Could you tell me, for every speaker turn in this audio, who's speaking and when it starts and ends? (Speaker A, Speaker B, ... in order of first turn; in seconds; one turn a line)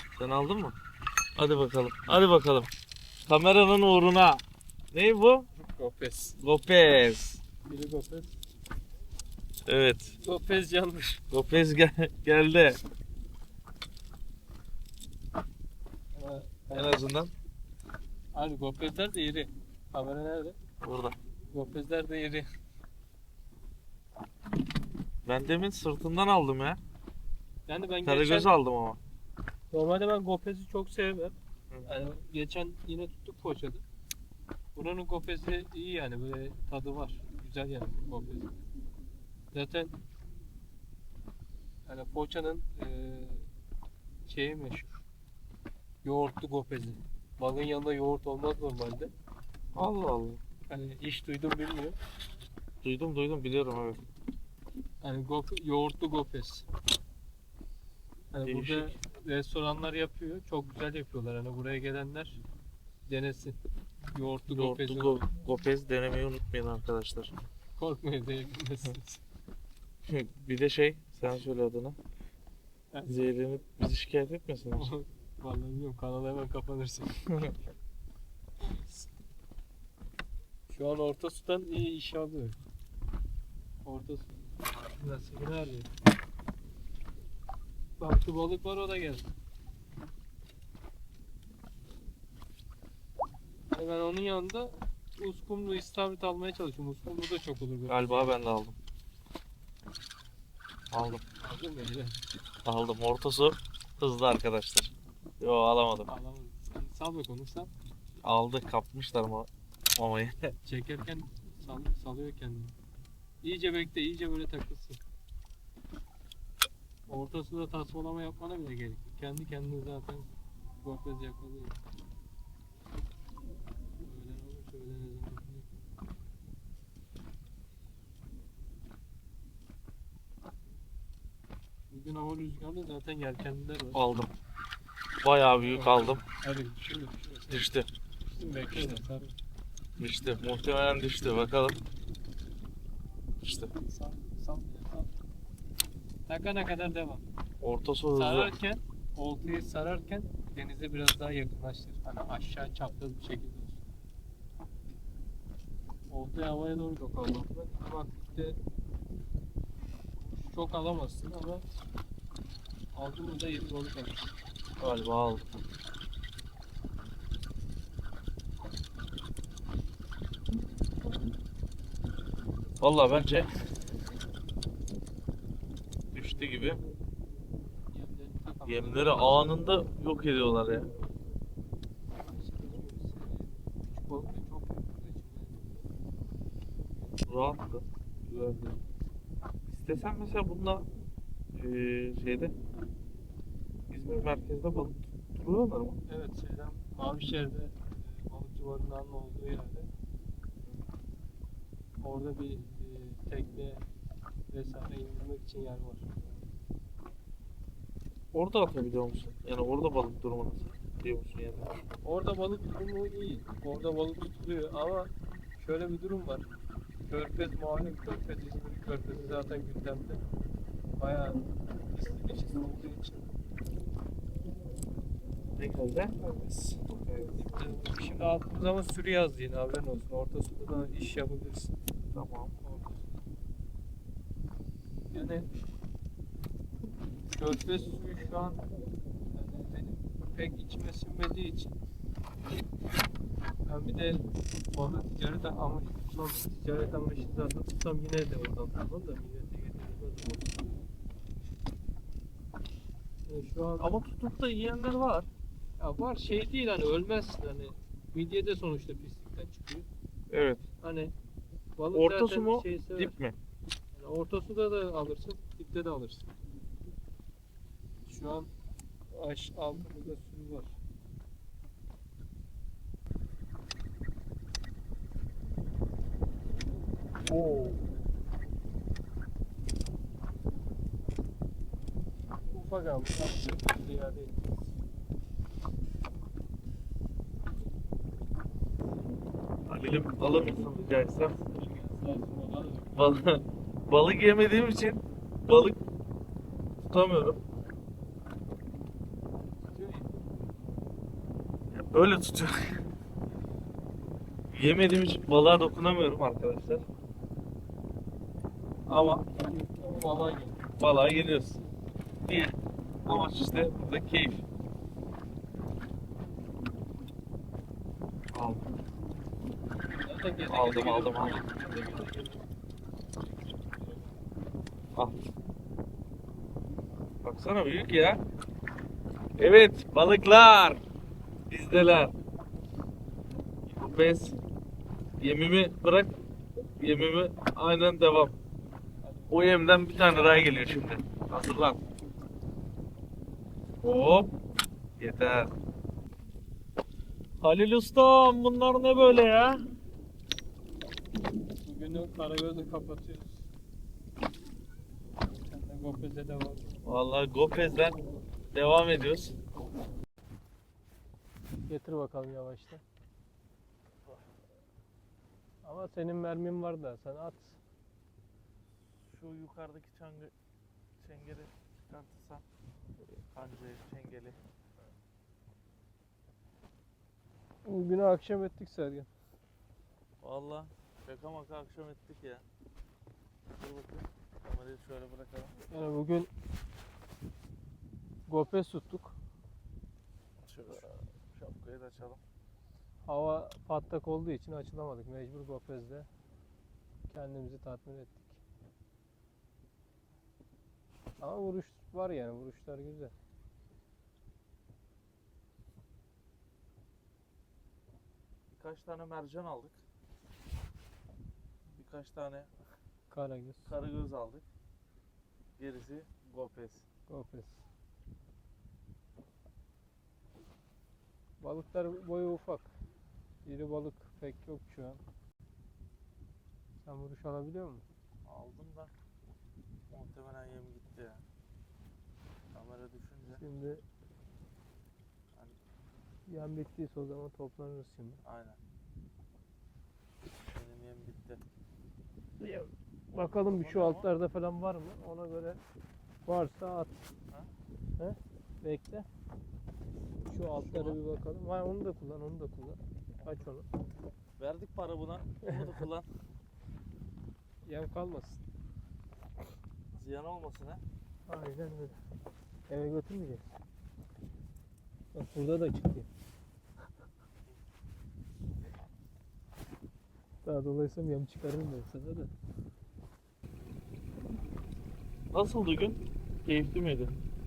Speaker A: 0.2-0.8
Speaker A: 1.4-2.7
Speaker A: 3.3-5.5
Speaker B: 5.6-6.4
Speaker A: 6.4-7.4
Speaker B: 7.7-8.3
Speaker A: 9.7-10.2
Speaker B: 10.2-11.2
Speaker A: 11.3-12.8
Speaker B: 16.1-17.0
Speaker A: 16.7-17.3
Speaker B: 18.3-20.6
Speaker A: 20.8-21.2
Speaker B: 21.5-22.5
Speaker A: 25.3-26.8
Speaker B: 27.7-28.5
Speaker A: 28.1-29.0
Speaker B: 29.7-33.8
Speaker B: 34.8-38.6
Speaker B: 39.5-40.0
Speaker B: 41.9-43.5
Speaker B: 44.3-45.0
Speaker B: 46.0-49.1
Speaker A: 49.8-50.4
Speaker B: 50.7-52.0
Speaker A: 52.8-54.0
Speaker B: 55.0-56.7
Speaker B: 58.3-62.4
Speaker A: 58.5-58.9
Speaker B: 63.1-65.2
Speaker A: 64.5-67.3
Speaker B: 67.8-69.2
Speaker A: 70.1-72.0
Speaker B: 72.9-73.3
Speaker A: 73.1-74.9
Speaker B: 74.8-77.3
Speaker A: 77.3-77.6
Speaker B: 78.7-79.1
Speaker B: 80.7-82.6
Speaker B: 83.8-84.3
Speaker B: 84.9-85.9
Speaker B: 88.0-89.3
Speaker B: 93.7-98.3
Speaker A: 97.9-98.8
Speaker A: 100.9-101.2
Speaker B: 101.4-102.2
Speaker A: 102.7-106.1
Speaker B: 106.1-107.7
Speaker A: 108.2-110.6
Speaker B: 110.6-112.8
Speaker B: 113.4-115.0
Speaker B: 117.1-120.3
Speaker B: 120.8-121.8
Speaker B: 124.0-125.8
Speaker B: 131.9-134.0
Speaker A: 133.9-134.3
Speaker A: 135.2-136.2
Speaker B: 135.6-137.7
Speaker A: 137.5-137.9
Speaker B: 138.3-139.4
Speaker A: 140.0-141.8
Speaker A: 143.4-143.7
Speaker B: 143.7-145.1
Speaker B: 146.3-147.2
Speaker A: 147.6-148.5
Speaker B: 148.1-153.9
Speaker B: 156.1-158.6
Speaker B: 160.2-161.7
Speaker B: 162.9-164.3
Speaker A: 164.8-165.5
Speaker A: 172.8-173.5
Speaker A: 176.1-176.8
Speaker B: 177.9-179.7
Speaker A: 178.7-180.9
Speaker B: 182.1-185.9
Speaker A: 187.2-188.8
Speaker A: 189.7-190.9
Speaker A: 191.6-192.5
Speaker A: 193.9-196.0
Speaker B: 196.1-199.9
Speaker B: 202.0-203.8
Speaker B: 204.5-206.2
Speaker A: 208.3-211.8
Speaker B: 212.0-216.5
Speaker B: 217.1-220.2
Speaker B: 221.0-223.3
Speaker A: 225.6-227.3
Speaker B: 227.2-231.7
Speaker A: 232.1-232.5
Speaker B: 232.6-233.3
Speaker B: 235.1-235.5
Speaker B: 237.3-238.7
Speaker B: 239.3-241.8
Speaker B: 243.7-250.7
Speaker B: 253.3-254.0
Speaker A: 253.8-255.3
Speaker B: 255.8-259.9
Speaker A: 260.3-260.6
Speaker B: 260.8-261.1
Speaker B: 261.8-263.1
Speaker A: 261.9-263.4
Speaker B: 263.9-266.3
Speaker B: 268.1-268.5
Speaker B: 269.1-270.8
Speaker B: 277.3-277.8
Speaker B: 282.5-284.6
Speaker A: 289.7-291.4
Speaker B: 291.4-293.0
Speaker A: 293.0-295.8
Speaker A: 296.9-297.4
Speaker B: 299.6-300.1
Speaker A: 301.7-302.8
Speaker A: 304.5-306.9
Speaker A: 308.9-309.2
Speaker B: 309.3-310.6
Speaker A: 310.8-311.6
Speaker A: 312.2-314.4
Speaker A: 318.3-318.6
Speaker B: 319.9-322.4
Speaker A: 320.5-321.4
Speaker A: 327.2-328.2
Speaker A: 329.4-330.8
Speaker A: 331.5-332.1
Speaker A: 333.7-334.4
Speaker A: 335.2-336.1
Speaker A: 336.8-338.4
Speaker B: 339.0-339.6
Speaker A: 339.3-341.8
Speaker A: 343.8-344.3
Speaker A: 345.0-345.5
Speaker A: 347.4-349.6
Speaker B: 351.6-353.5
Speaker B: 355.4-356.7
Speaker A: 356.9-358.0
Speaker A: 358.5-359.4
Speaker B: 361.7-362.8
Speaker B: 365.6-367.6
Speaker A: 369.0-370.3
Speaker A: 371.0-372.4
Speaker A: 373.3-374.4
Speaker B: 377.6-379.1
Speaker A: 380.2-382.4
Speaker A: 383.6-385.6
Speaker B: 385.7-386.3
Speaker B: 388.3-389.2
Speaker A: 390.4-392.2
Speaker B: 393.1-396.1
Speaker B: 397.1-398.4
Speaker B: 401.2-403.1
Speaker A: 408.5-409.8
Speaker A: 411.8-412.5
Speaker B: 413.1-413.7
Speaker A: 413.7-414.4
Speaker A: 415.6-416.9
Speaker B: 417.1-417.6
Speaker B: 421.4-422.7
Speaker B: 423.4-425.0
Speaker B: 426.8-427.8
Speaker A: 428.3-428.9
Speaker A: 429.9-431.2
Speaker A: 432.5-433.4
Speaker B: 433.3-433.8
Speaker B: 436.3-438.2
Speaker A: 438.2-438.6
Speaker A: 440.5-441.4
Speaker B: 442.4-445.6
Speaker A: 443.4-444.1
Speaker B: 446.3-447.0
Speaker B: 448.0-449.1
Speaker B: 450.3-453.7
Speaker A: 450.5-451.0
Speaker A: 454.4-456.1
Speaker B: 455.4-455.8
Speaker B: 457.6-458.4
Speaker A: 459.9-460.8
Speaker B: 461.3-462.0
Speaker B: 462.7-463.4
Speaker B: 465.1-466.1
Speaker B: 470.4-472.3
Speaker A: 475.3-477.2